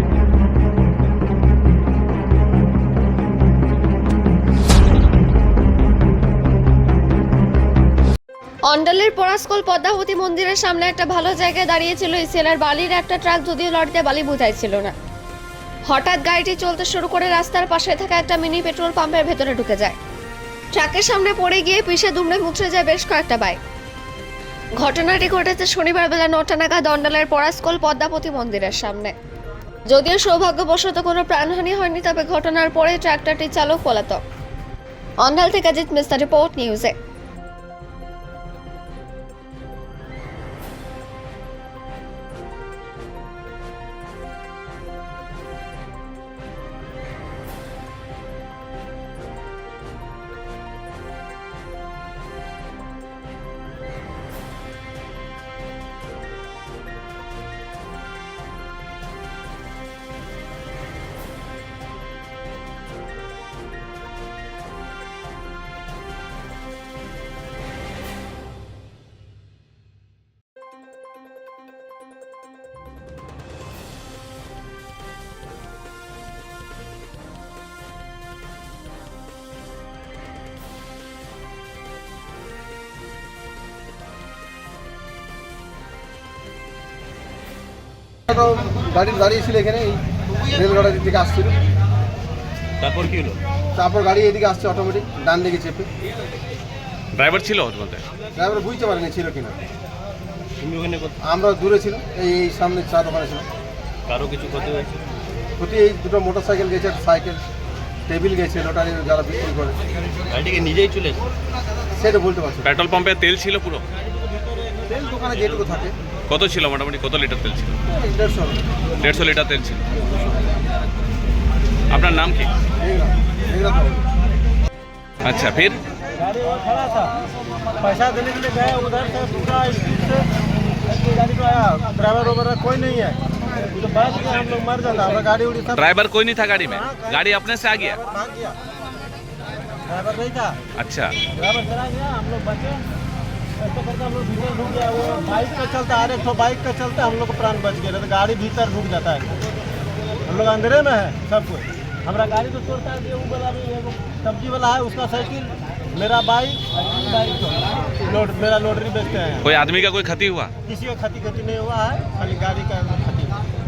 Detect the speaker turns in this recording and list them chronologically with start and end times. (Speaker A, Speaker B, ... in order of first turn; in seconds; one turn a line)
Speaker A: 8.7-14.9
Speaker A: 15.9-20.0
Speaker A: 20.7-23.6
Speaker A: 24.8-29.1
Speaker A: 29.9-34.2
Speaker A: 35.2-36.9
Speaker B: 88.3-91.6
Speaker C: 92.8-93.4
Speaker B: 93.7-95.9
Speaker D: 97.1-98.0
Speaker B: 98.3-99.6
Speaker C: 100.6-101.1
Speaker B: 101.2-103.5
Speaker C: 104.1-105.0
Speaker B: 105.6-107.5
Speaker B: 108.1-109.8
Speaker C: 110.3-111.3
Speaker B: 111.9-112.7
Speaker D: 112.6-113.8
Speaker B: 114.8-115.9
Speaker D: 116.3-117.8
Speaker B: 117.9-118.6
Speaker D: 119.0-120.0
Speaker D: 121.9-122.5
Speaker B: 122.8-124.0
Speaker D: 125.2-125.8
Speaker E: 126.2-127.1
Speaker E: 127.8-130.2
Speaker E: 130.9-133.2
Speaker E: 133.7-135.7
Speaker D: 135.7-138.0
Speaker E: 136.7-137.2
Speaker E: 138.0-138.5
Speaker E: 139.9-140.6
Speaker D: 140.8-141.1
Speaker E: 141.3-142.8
Speaker E: 143.6-149.4
Speaker E: 150.2-159.4
Speaker D: 159.4-160.5
Speaker E: 160.7-163.3